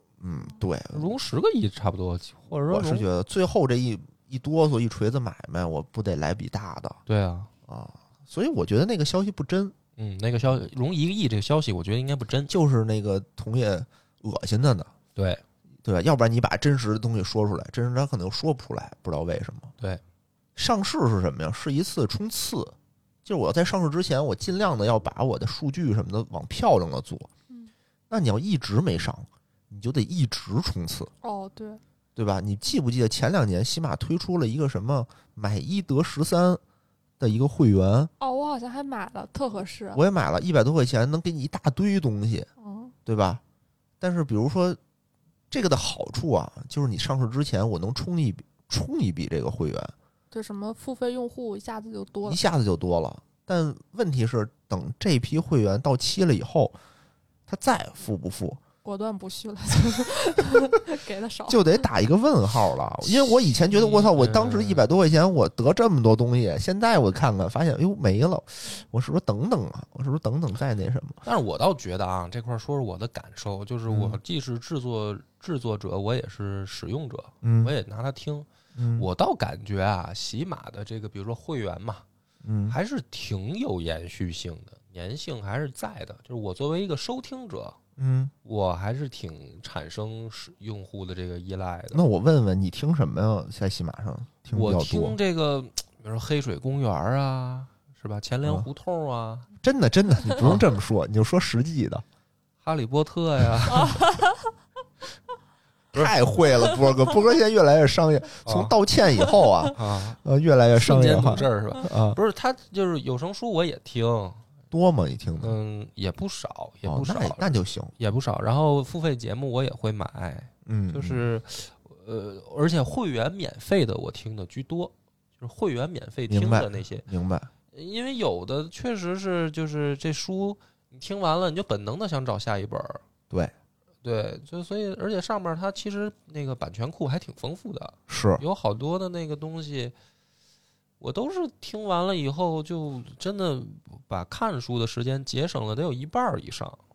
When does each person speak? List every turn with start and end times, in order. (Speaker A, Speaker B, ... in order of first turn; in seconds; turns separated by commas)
Speaker A: 0.2-1.1, Speaker B: 0.9-3.1, Speaker A: 2.7-7.0, Speaker B: 7.1-7.5, Speaker A: 7.7-9.7, Speaker B: 10.0-12.5, Speaker A: 12.5-14.9, Speaker B: 15.2-15.4, Speaker A: 15.8-19.7, Speaker A: 20.6-27.3, Speaker A: 28.1-31.1, Speaker C: 31.2-31.8, Speaker A: 32.1-36.6, Speaker A: 37.2-38.1, Speaker C: 38.2-40.0, Speaker A: 39.9-42.5, Speaker C: 42.6-42.9, Speaker A: 43.1-43.4, Speaker A: 44.0-44.8, Speaker A: 45.5-49.9, Speaker C: 50.3-52.4, Speaker A: 52.2-56.8, Speaker A: 57.5-58.6, Speaker C: 58.8-61.9, Speaker A: 61.5-71.2, Speaker B: 63.7-64.8, Speaker B: 71.2-82.0, Speaker A: 73.9-74.2, Speaker A: 77.4-77.7, Speaker A: 78.8-79.1, Speaker A: 82.4-82.8, Speaker B: 82.7-87.8, Speaker A: 88.0-88.3, Speaker B: 88.4-92.0, Speaker A: 91.9-95.2, Speaker B: 94.5-99.5, Speaker A: 99.6-102.0, Speaker B: 100.4-100.6, Speaker B: 102.6-104.1, Speaker C: 103.8-104.4, Speaker A: 105.9-112.2, Speaker B: 108.4-108.7, Speaker B: 109.7-110.2, Speaker B: 110.7-114.4, Speaker A: 114.7-115.6, Speaker B: 115.4-127.0, Speaker A: 116.9-117.9, Speaker A: 120.7-121.2, Speaker A: 126.3-127.5, Speaker B: 127.7-133.0, Speaker B: 134.0-139.9, Speaker A: 138.1-138.4, Speaker B: 141.0-146.8